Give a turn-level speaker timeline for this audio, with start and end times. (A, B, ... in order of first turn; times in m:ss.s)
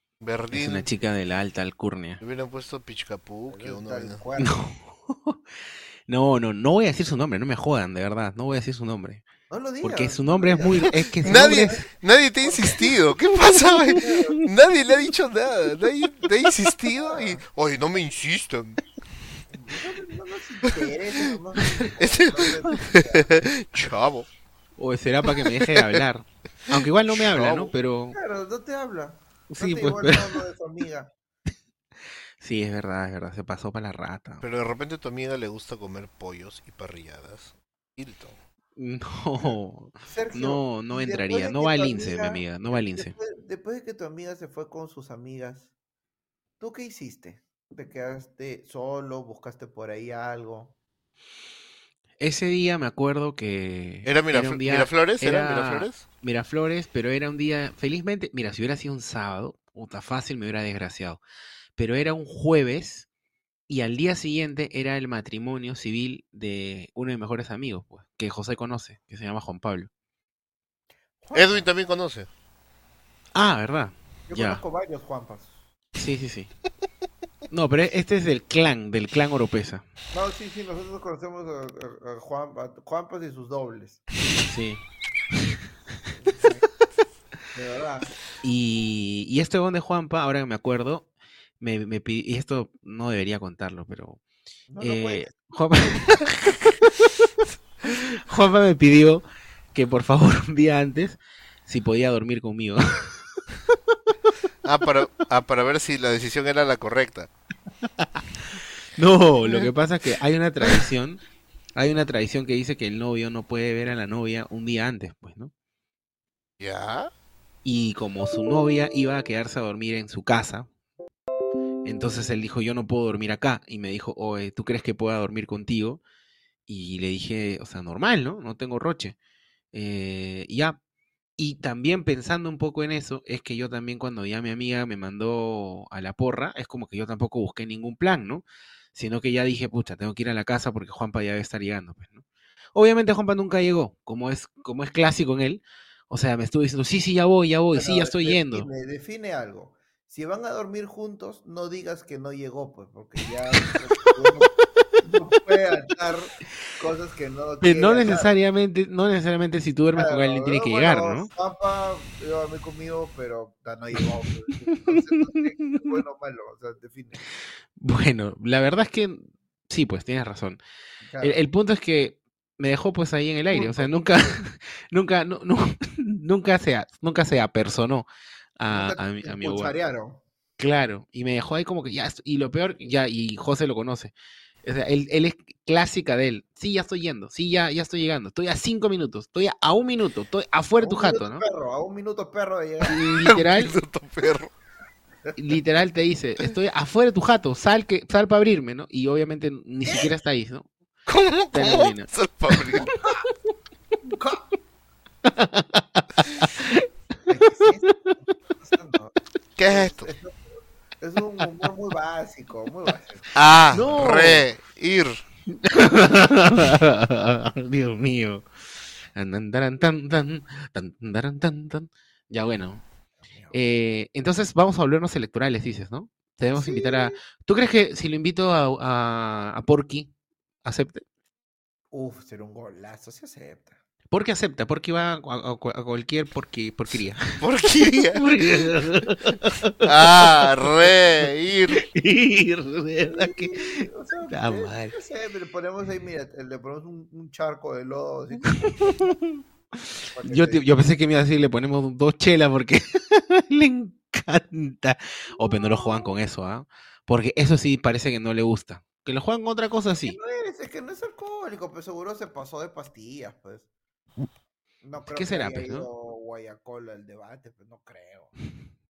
0:00.2-0:00.9 A
0:00.5-0:02.2 B
0:02.2-0:04.2 A
0:03.5-0:04.6 C
0:04.4-0:05.4 B
0:06.1-0:09.2 B
0:09.5-0:11.8 C
0:09.8-0:11.8 B
0:11.2-0:18.8 A
0:12.4-0:13.2 C
0:13.9-0:14.4 C
0:17.0-0:17.4 C
0:19.5-0:23.4 C
0:22.0-0:24.3 A
0:24.8-0:28.2 B
0:27.3-0:27.7 A
0:28.1-0:31.1 C
0:29.5-0:30.4 B
0:32.4-0:34.4 B
0:34.4-0:38.4 A
0:38.8-0:43.1 B
0:39.3-0:45.7 C
0:46.6-0:50.7 C
0:52.2-1:01.2 B
0:54.0-0:56.0 A
1:01.8-1:03.1 B
1:03.7-1:09.9 B
1:11.2-1:11.7 C
1:11.3-1:12.3 A
1:13.3-1:14.6 B
1:14.3-1:15.6 C
1:15.9-1:16.5 B
1:17.5-1:19.8 B
1:20.1-1:24.0 C
1:24.4-1:24.8 B
1:26.2-1:26.6 C
1:27.5-1:28.2 C
1:28.4-1:31.1 B
1:31.6-1:34.2 B
1:34.7-1:35.4 C
1:34.8-1:36.8 B
1:37.9-1:43.1 B
1:44.6-1:47.3 A
1:49.0-1:51.2 B
1:51.7-1:55.5 B
1:56.6-1:57.1 A
1:57.6-2:00.7 B
2:01.8-2:06.0 B
2:06.7-2:09.2 B
2:09.7-2:10.8 B
2:11.4-2:22.2 B
2:22.7-2:28.7 B
2:27.7-2:38.4 C
2:37.6-2:41.3 B
2:39.9-2:47.2 C
2:44.8-2:45.4 B
2:47.8-2:50.6 B
2:51.0-2:51.4 C
2:51.2-2:58.1 B
2:53.5-2:54.4 C
2:58.6-2:59.7 B
2:58.6-3:00.2 C
3:00.6-3:04.1 B
3:04.6-3:11.4 B
3:10.8-3:13.0 C
3:12.8-3:13.7 B
3:13.1-3:14.5 A
3:15.4-3:20.7 B
3:21.1-3:22.9 A
3:21.5-3:22.9 B
3:24.1-3:24.5 C
3:25.2-3:26.8 B
3:27.3-3:29.1 C
3:29.6-3:30.1 A
3:29.6-3:33.9 C
3:33.3-3:35.2 A
3:33.7-3:34.5 B
3:35.6-3:38.4 B
3:39.1-3:42.8 B
3:43.2-3:43.6 C
3:43.5-3:50.1 B
3:46.5-3:47.2 C
3:50.6-3:51.0 B
3:51.9-3:53.8 C
3:54.1-3:57.4 B
3:57.4-3:58.3 A
3:58.1-4:00.2 B
3:59.8-4:01.8 A
4:01.9-4:04.9 B
4:03.0-4:09.1 C
4:08.7-4:09.4 B
4:10.1-4:10.7 C
4:10.2-4:20.2 B
4:15.3-4:16.1 C
4:19.9-4:23.7 C
4:24.8-4:28.3 C
4:25.1-4:25.9 B